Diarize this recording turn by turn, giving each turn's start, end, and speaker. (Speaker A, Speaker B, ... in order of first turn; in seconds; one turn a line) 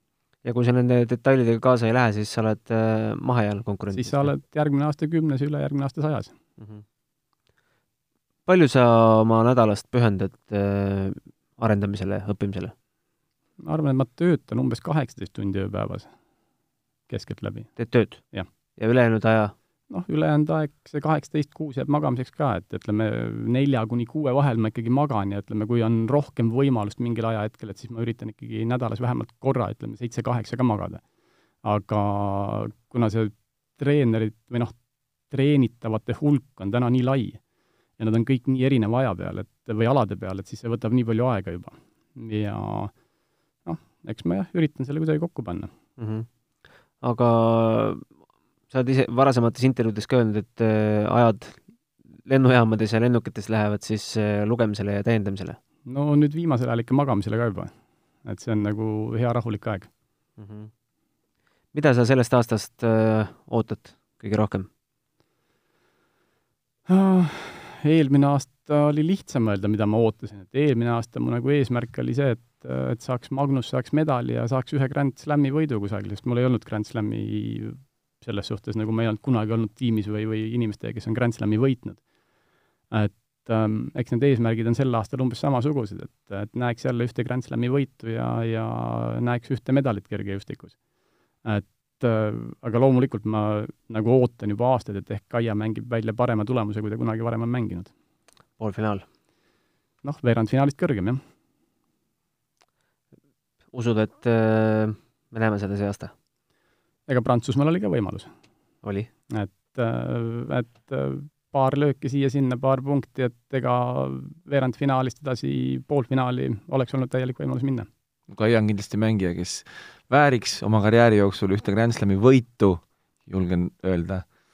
Speaker A: 0.4-4.3
Speaker B: 3.9-6.3
Speaker A: 8.4-12.7
Speaker B: 13.6-16.1
Speaker B: 17.1-17.7
Speaker A: 17.8-18.2
Speaker A: 18.8-19.5
Speaker B: 19.9-31.0
Speaker B: 31.6-37.4
Speaker B: 38.0-43.0
Speaker B: 43.6-45.7
Speaker A: 46.0-46.3
Speaker A: 47.0-48.0
Speaker A: 48.7-51.6
Speaker A: 52.2-55.6
Speaker B: 55.9-57.7
Speaker B: 58.2-59.9
Speaker A: 60.4-60.7
Speaker A: 61.7-64.7
Speaker B: 66.9-82.0
Speaker B: 82.9-90.8
Speaker B: 91.4-97.9
Speaker A: 98.6-99.0
Speaker B: 100.0-101.2
Speaker A: 103.7-106.1
Speaker B: 107.1-108.3
Speaker A: 108.8-109.1
Speaker B: 109.3-117.9
Speaker C: 118.3-124.2